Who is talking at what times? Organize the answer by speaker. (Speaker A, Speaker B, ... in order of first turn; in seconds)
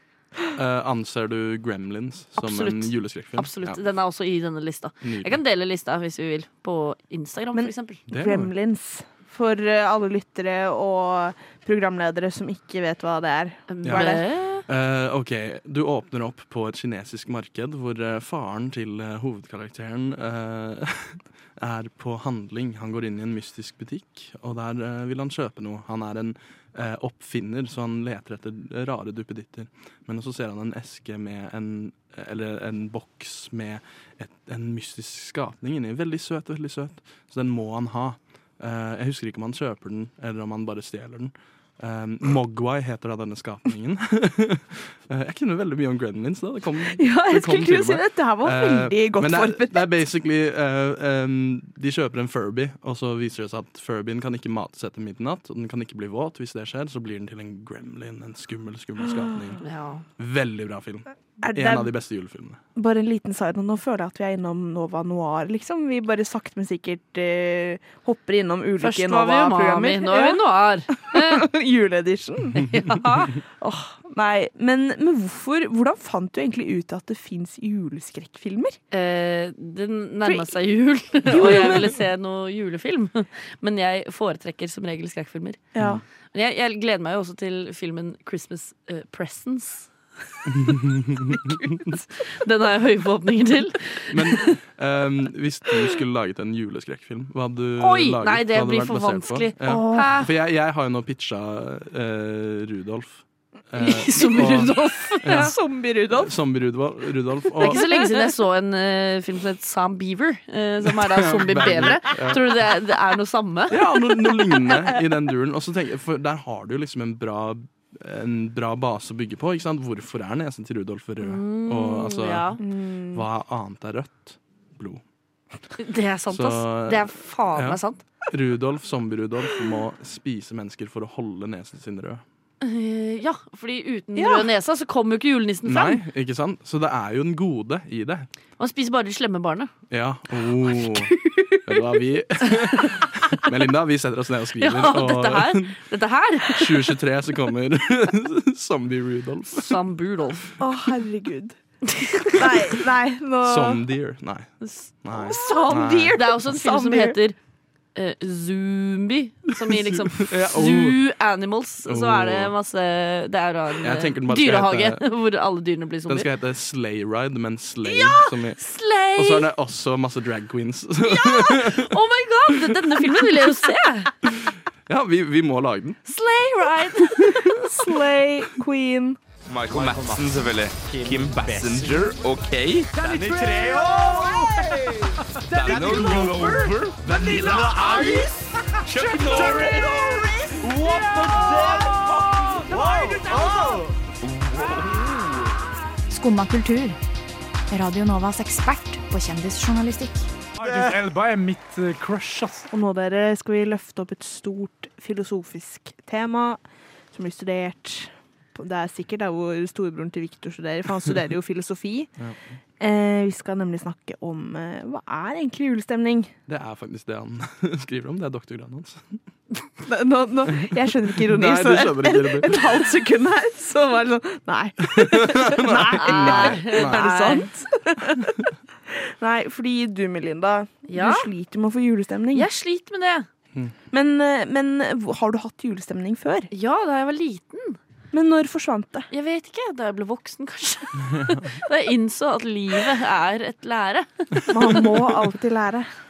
Speaker A: 0.5-3.8, 5.0-5.4, 8.1-8.5, 13.8-59.6, 60.2-62.6, 90.5-91.9, 94.1-105.5, 106.1-107.8, 111.0-112.4, 113.7-122.6, 123.1-125.0, 126.3-132.2, 135.6-138.3, 139.9-145.8, 146.5-149.8, 153.4-156.2, 159.7-161.0, 161.8-162.5, 163.8-165.0, 166.1-168.6, 169.1-172.0, 174.2-176.0, 216.5-219.2, 220.6-222.8, 224.8-227.3, 241.1-241.4
Speaker B: 2.4-8.0, 13.7-14.6, 59.6-60.0, 68.8-71.5, 72.5-73.4, 78.9-85.6, 86.3-89.9, 92.2-94.5, 97.8-100.3, 103.8-105.5, 107.6-113.8, 121.2-122.6, 125.8-128.0, 132.6-136.0, 138.6-139.7, 144.6-146.9, 149.5-150.5, 151.9-152.4, 154.6-157.3, 157.9-166.3, 167.8-169.5, 171.0-174.1, 176.1-177.5, 226.0-227.4, 230.9-231.3, 232.3-233.3, 236.5-237.8, 239.1-244.9
Speaker C: 7.5-14.2, 46.9-49.9, 61.4-61.9, 62.7-70.4, 70.9-72.6, 73.6-78.8, 81.2-81.9, 85.7-86.0, 99.6-100.2, 105.3-106.3, 107.6-108.3, 122.6-123.2, 134.1-134.5, 141.3-141.5, 150.6-151.6, 152.3-153.8, 155.2-157.2, 177.4-179.2, 202.7-206.6, 207.1-212.1, 212.8-216.3, 219.8-232.5, 233.9-236.5, 238.1-239.1, 244.5-245.9
Speaker D: 179.5-184.3, 185.5-188.2, 188.9-193.7, 194.6-195.1
Speaker E: 179.7-180.3, 181.0-182.1, 182.9-193.9, 200.6-202.6
Speaker F: 196.1-197.0, 197.7-200.3